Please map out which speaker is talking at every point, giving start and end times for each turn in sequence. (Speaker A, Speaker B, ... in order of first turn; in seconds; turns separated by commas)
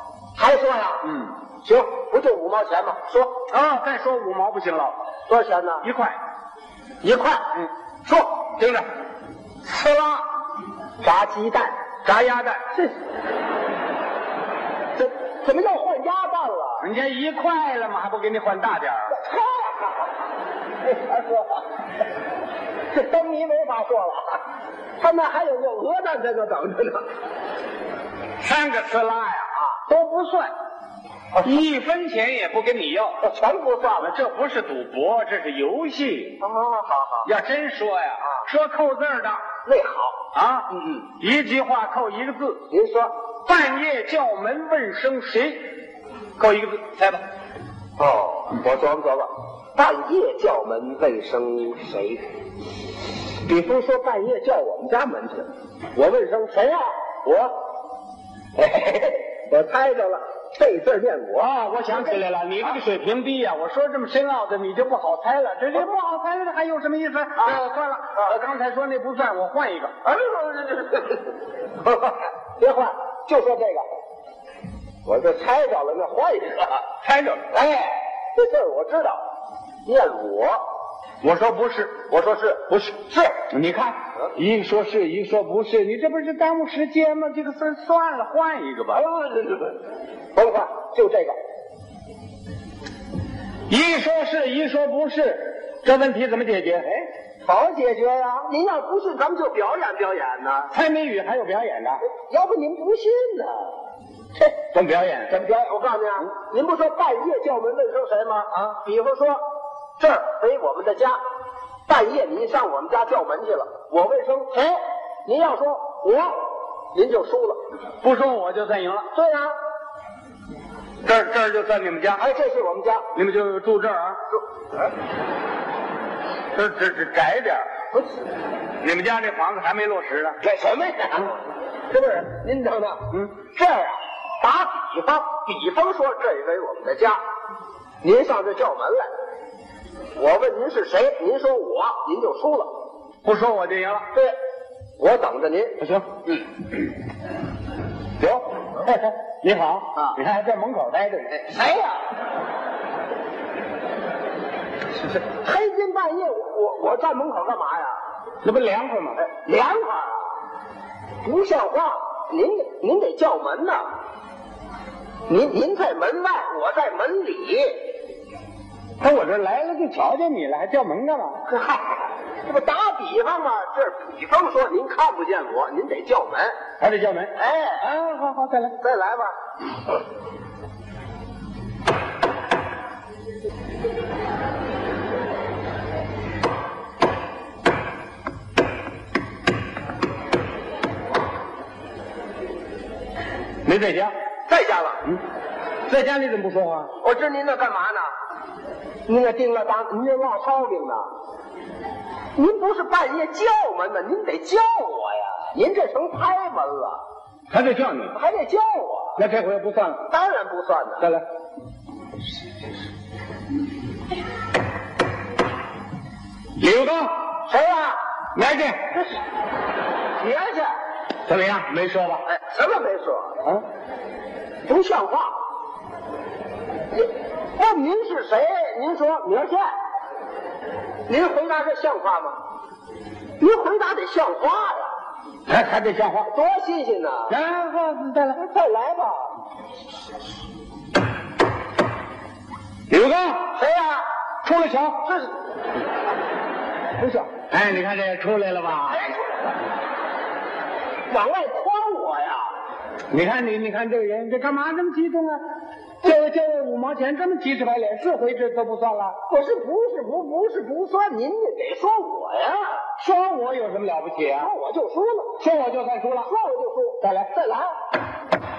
Speaker A: 0.4-1.1, Speaker B: 1.1-1.4, Speaker A: 1.6-3.3, Speaker B: 3.5-5.0, Speaker A: 5.3-5.9, Speaker B: 5.8-6.2, Speaker A: 7.0-7.5, Speaker B: 8.4-8.9, Speaker B: 9.7-10.2, Speaker A: 11.0-11.8, Speaker B: 12.1-12.7, Speaker A: 15.0-16.9, Speaker B: 16.8-19.2, Speaker A: 19.1-20.1, Speaker A: 20.8-21.7, Speaker A: 22.9-24.4, Speaker A: 25.0-27.1, Speaker B: 28.4-30.5, Speaker B: 31.4-33.2, Speaker A: 33.2-34.1, Speaker B: 34.0-36.4, Speaker A: 36.4-37.3, Speaker B: 37.2-39.4, Speaker A: 39.6-40.1, Speaker B: 40.3-42.6, Speaker A: 42.7-43.1, Speaker B: 43.5-45.6, Speaker B: 46.4-47.2, Speaker A: 48.0-52.2, Speaker A: 53.5-56.8, Speaker B: 57.2-57.5, Speaker A: 58.6-62.2, Speaker B: 61.4-70.0, Speaker A: 67.4-67.7, Speaker A: 70.0-73.8, Speaker A: 75.0-76.8, Speaker B: 77.0-77.5, Speaker A: 77.5-79.2, Speaker A: 79.9-80.6, Speaker B: 81.2-82.1, Speaker A: 82.1-83.3, Speaker B: 83.4-89.0, Speaker A: 88.9-89.8, Speaker A: 90.3-91.4, Speaker B: 93.7-97.1, Speaker A: 97.4-100.7, Speaker B: 100.7-102.0, Speaker A: 102.0-103.8, Speaker B: 104.7-105.4, Speaker A: 105.3-109.4, Speaker A: 110.0-111.2, Speaker A: 111.9-116.4, Speaker A: 116.9-117.6, Speaker B: 118.0-119.1, Speaker A: 119.1-119.5, Speaker B: 121.0-122.2, Speaker A: 122.2-123.1, Speaker B: 123.1-124.2, Speaker B: 126.5-127.7, Speaker B: 128.8-130.4, Speaker A: 130.4-137.2, Speaker A: 138.0-139.1, Speaker A: 140.2-142.7, Speaker B: 143.2-144.1, Speaker A: 145.0-145.8, Speaker B: 145.8-146.4, Speaker B: 148.2-151.5, Speaker A: 151.4-152.1, Speaker A: 155.1-157.9, Speaker B: 158.4-159.3, Speaker A: 159.3-160.2, Speaker A: 161.2-163.8, Speaker A: 165.3-167.8, Speaker B: 169.0-171.5, Speaker A: 171.5-176.6, Speaker B: 176.8-178.8, Speaker A: 177.4-177.8, Speaker A: 178.8-179.3, Speaker B: 193.7-194.1, Speaker A: 194.5-195.1, Speaker B: 195.9-196.9, Speaker A: 197.0-198.1, Speaker A: 199.1-201.1, Speaker A: 202.4-207.0, Speaker B: 207.5-208.2, Speaker A: 208.1-209.2, Speaker B: 209.2-210.1, Speaker A: 210.1-211.1, Speaker B: 216.6-217.3, Speaker A: 217.5-218.0, Speaker B: 218.3-218.9, Speaker A: 220.2-220.7, Speaker B: 221.3-222.2, Speaker A: 222.3-223.3, Speaker A: 224.7-225.3, Speaker A: 226.9-229.7, Speaker A: 231.1-232.4, Speaker A: 233.4-234.9, Speaker B: 235.5-236.3, Speaker A: 236.3-237.3, Speaker B: 237.3-238.4, Speaker A: 238.3-239.3, Speaker B: 242.9-243.6, Speaker A: 243.6-244.1, Speaker B: 244.4-245.1, Speaker A: 245.1-245.3, Speaker A: 247.0-247.3, Speaker B: 247.4-249.2, Speaker A: 249.0-249.3, Speaker A: 251.1-252.4, Speaker B: 253.1-255.4, Speaker B: 256.0-259.2, Speaker A: 259.3-262.7, Speaker B: 263.0-264.5, Speaker A: 264.3-265.4, Speaker B: 265.4-266.3, Speaker A: 266.2-267.7, Speaker B: 267.0-267.3